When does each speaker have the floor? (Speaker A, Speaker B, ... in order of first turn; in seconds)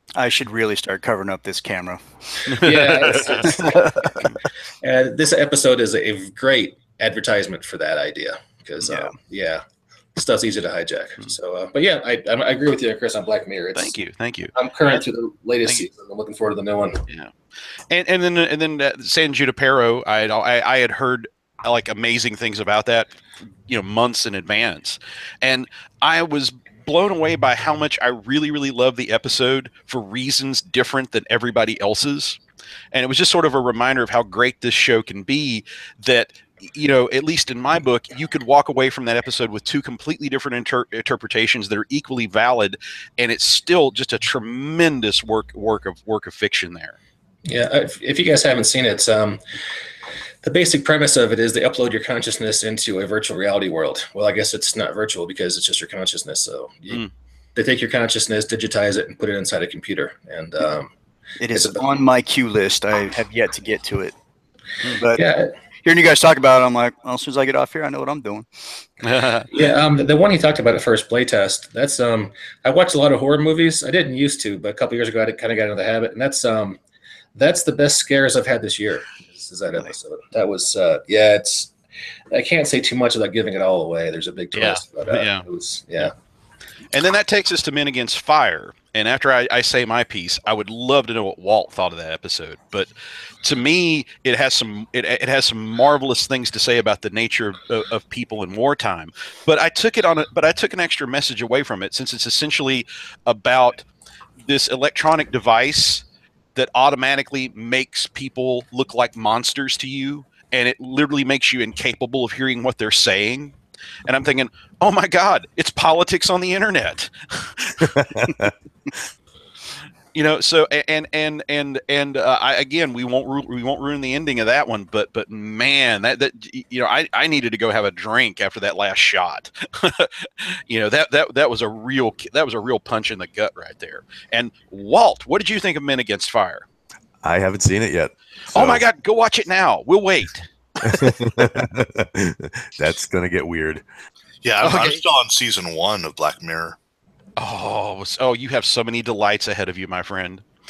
Speaker A: 0.2-2.6, 3.5-4.2, 8.9-9.1, 61.4-64.1, 65.0-65.2, 65.8-68.5
Speaker B: 2.5-4.2, 4.8-9.6, 10.1-13.9, 14.5-17.0, 47.4-49.4, 50.4-60.9, 61.5-61.8, 65.1-65.5, 69.5-76.8, 77.3-81.7, 82.3-86.1
Speaker C: 3.0-3.6, 13.8-14.5, 17.9-32.4, 32.9-47.0, 69.0-69.5, 84.5-85.5, 86.9-92.9, 93.4-103.8, 104.4-106.0, 106.5-118.0, 120.1-136.6, 138.5-141.1, 144.6-145.0, 147.4-150.4
Speaker D: 117.9-118.4, 137.2-138.8, 140.8-143.8
Speaker E: 144.4-146.8